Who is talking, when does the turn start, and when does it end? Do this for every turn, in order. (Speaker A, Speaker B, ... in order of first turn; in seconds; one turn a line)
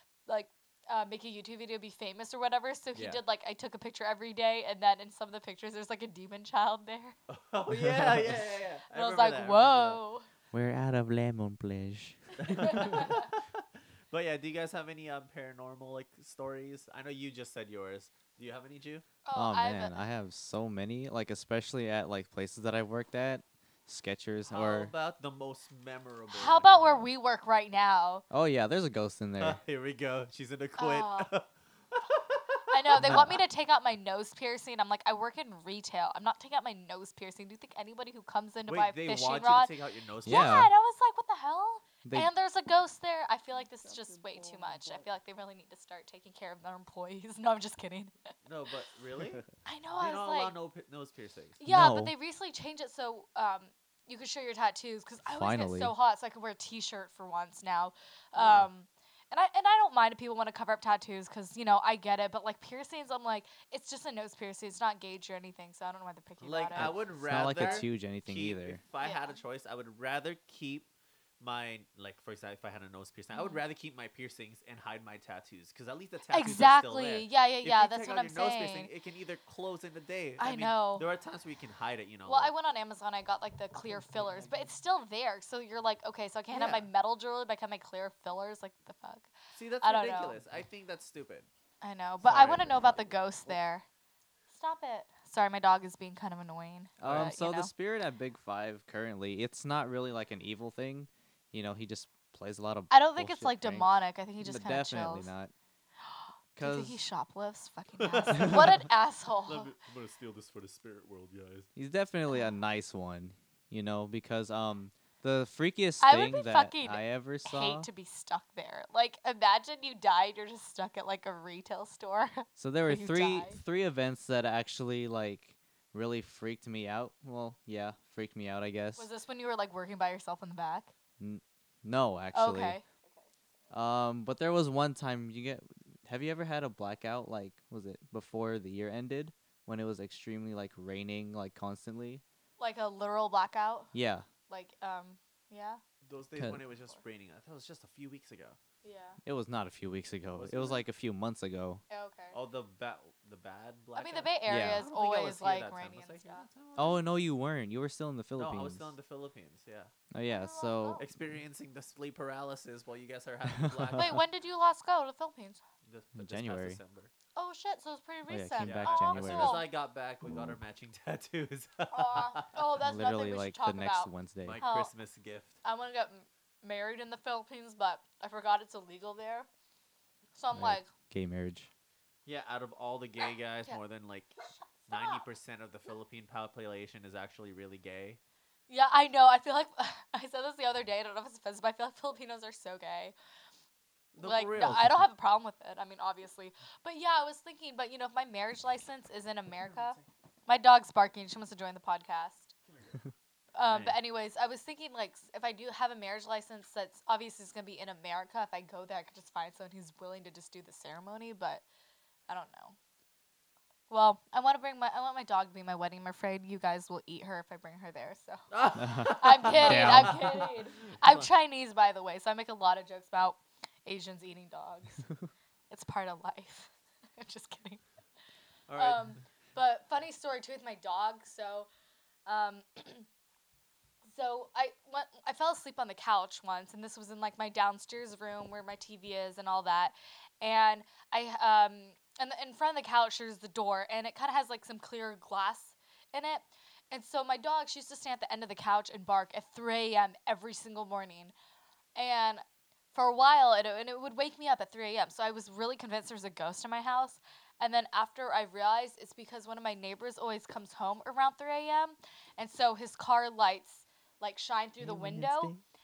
Speaker A: 0.3-7.2
Speaker B: 2.9-3.2
Speaker B: 7.3-10.0
Speaker C: 7.7-8.2
Speaker A: 8.9-10.3
Speaker C: 10.5-13.1
Speaker B: 12.4-19.1
Speaker A: 12.4-13.3
Speaker A: 19.2-20.1
Speaker C: 19.3-24.9
Speaker B: 24.5-27.1
Speaker A: 26.3-28.2
Speaker C: 28.3-29.6
Speaker B: 29.4-33.4
Speaker A: 30.8-31.3
Speaker A: 32.7-48.1
Speaker C: 33.0-33.4
Speaker B: 38.7-40.6
Speaker C: 40.2-40.7
Speaker C: 42.0-42.3
Speaker B: 48.4-49.4
Speaker A: 49.6-50.5
Speaker B: 50.0-51.6
Speaker A: 51.6-67.0
Speaker C: 51.7-52.1
Speaker C: 55.3-55.9
Speaker B: 58.3-58.7
Speaker B: 66.4-70.9
Speaker C: 66.7-68.8
Speaker A: 69.0-69.4
Speaker B: 71.4-82.5
Speaker A: 73.3-73.6
Speaker A: 76.3-78.9
Speaker A: 80.4-81.0
Speaker A: 82.3-90.4
Speaker B: 86.5-86.8
Speaker B: 89.5-91.5
Speaker A: 91.8-93.8
Speaker B: 92.2-93.6
Speaker A: 94.5-97.7
Speaker C: 97.0-105.5
Speaker B: 97.0-97.3
Speaker A: 102.9-105.3
Speaker A: 106.1-109.7
Speaker C: 106.6-107.0
Speaker B: 108.0-108.8
Speaker C: 108.3-108.8
Speaker B: 109.5-111.7
Speaker C: 111.8-117.9
Speaker A: 116.0-123.6
Speaker C: 122.6-129.1
Speaker A: 129.0-130.9
Speaker C: 131.2-132.8
Speaker A: 132.3-133.3
Speaker C: 133.7-142.2
Speaker A: 142.6-143.9
Speaker C: 143.9-144.3
Speaker A: 144.5-145.8
Speaker B: 146.0-148.6
Speaker C: 146.3-146.6
Speaker A: 148.8-149.2
Speaker C: 149.2-151.8
Speaker B: 150.3-150.8
Speaker A: 151.9-152.4
Speaker B: 152.3-157.1
Speaker A: 153.9-156.5
Speaker C: 154.4-154.8
Speaker C: 156.8-158.9
Speaker B: 158.4-159.9
Speaker C: 160.1-161.0
Speaker A: 160.2-161.1
Speaker B: 161.0-164.2
Speaker C: 163.6-164.2
Speaker A: 163.9-165.6
Speaker B: 165.8-167.1
Speaker C: 166.1-166.8
Speaker A: 167.3-169.7
Speaker C: 168.3-169.6
Speaker B: 168.6-172.5
Speaker A: 171.9-174.9
Speaker C: 172.8-174.6
Speaker B: 174.4-175.6
Speaker A: 175.6-179.5
Speaker A: 180.3-180.9
Speaker C: 180.5-181.7
Speaker B: 182.2-184.3
Speaker A: 184.8-185.2
Speaker B: 184.9-188.2
Speaker A: 188.7-193.1
Speaker B: 194.1-194.9
Speaker A: 194.2-202.5
Speaker C: 194.6-194.9
Speaker B: 202.7-203.0
Speaker A: 203.5-211.6
Speaker B: 203.7-204.0
Speaker A: 212.3-212.8
Speaker A: 213.9-225.1
Speaker B: 218.5-221.3
Speaker C: 218.8-220.2
Speaker A: 225.7-227.8
Speaker B: 228.7-229.2
Speaker A: 228.8-231.7
Speaker A: 232.2-233.1
Speaker A: 234.1-251.3
Speaker A: 251.9-265.6
Speaker C: 264.8-265.6